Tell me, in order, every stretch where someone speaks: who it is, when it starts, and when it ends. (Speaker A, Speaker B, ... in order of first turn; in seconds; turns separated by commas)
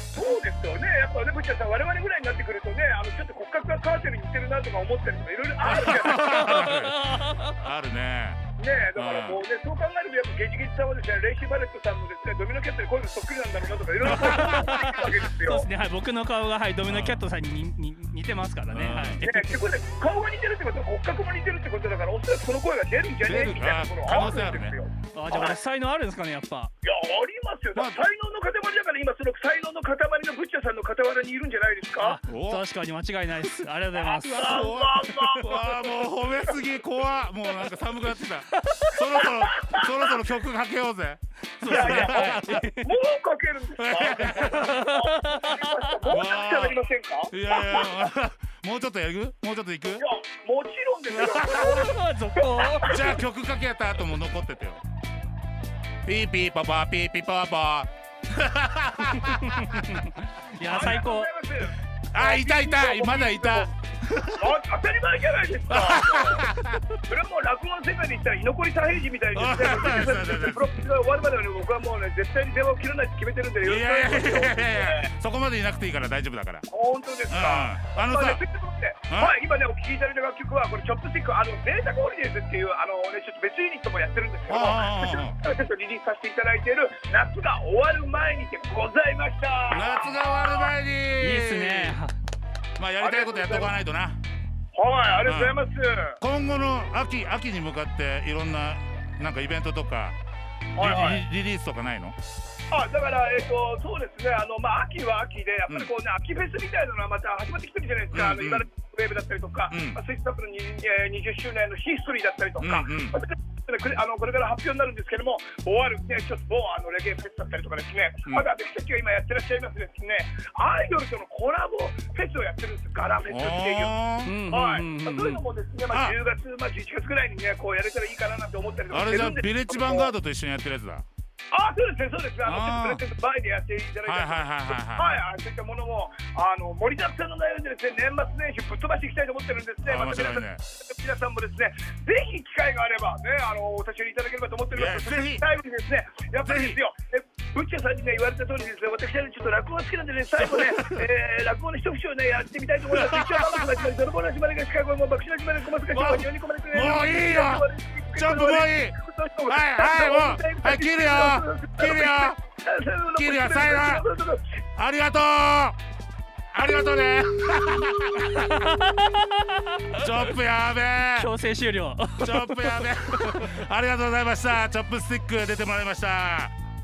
Speaker A: 0.1-6.6, Speaker B: 5.6-8.4, Speaker C: 5.9-7.5, Speaker A: 8.6-15.7, Speaker B: 9.0-9.4, Speaker B: 14.1-15.1, Speaker C: 14.2-19.6, Speaker B: 16.8-17.2, Speaker B: 18.7-19.2, Speaker A: 19.2-25.6, Speaker B: 23.2-24.8, Speaker C: 25.1-26.7, Speaker A: 26.8-32.2, Speaker B: 27.8-28.0, Speaker C: 32.0-34.6, Speaker B: 32.3-32.6, Speaker A: 33.9-35.5, Speaker B: 34.3-42.5, Speaker C: 38.6-39.3, Speaker A: 39.5-39.8, Speaker C: 41.6-42.9, Speaker A: 41.7-47.9, Speaker B: 43.8-44.8, Speaker C: 44.6-46.1, Speaker B: 46.1-50.0, Speaker A: 50.0-53.1, Speaker B: 51.1-51.9, Speaker C: 51.7-53.1, Speaker B: 52.8-54.8, Speaker B: 56.0-59.9, Speaker C: 59.2-61.3, Speaker A: 60.6-63.7, Speaker B: 62.1-64.6, Speaker A: 64.4-66.5, Speaker B: 65.7-66.8, Speaker A: 67.1-75.1, Speaker B: 69.3-70.8, Speaker B: 73.6-76.7, Speaker A: 76.7-90.6, Speaker B: 77.3-78.4, Speaker B: 79.1-79.3, Speaker B: 84.5-85.4, Speaker B: 89.7-92.0, Speaker C: 91.2-92.1, Speaker B: 92.8-94.2, Speaker A: 93.0-93.7, Speaker A: 94.7-96.2, Speaker B: 95.3-95.6, Speaker B: 96.2-100.2, Speaker B: 100.7-102.2, Speaker A: 100.8-101.2, Speaker A: 102.7-124.0, Speaker B: 108.1-108.7, Speaker B: 109.7-110.0, Speaker B: 112.6-113.2, Speaker B: 123.3-124.3, Speaker C: 124.2-125.4, Speaker A: 124.5-130.1, Speaker B: 125.9-126.2, Speaker B: 128.9-131.1, Speaker A: 131.5-164.5, Speaker B: 132.4-133.0, Speaker B: 134.1-135.2, Speaker B: 139.8-140.6, Speaker B: 144.7-145.5, Speaker B: 146.4-146.8, Speaker B: 150.5-151.0, Speaker B: 152.9-153.9, Speaker B: 155.9-162.4, Speaker B: 163.2-164.0, Speaker B: 164.8-165.8, Speaker B: 166.5-168.7, Speaker C: 168.3-169.9, Speaker B: 169.9-171.3, Speaker C: 171.1-173.6, Speaker B: 172.2-176.5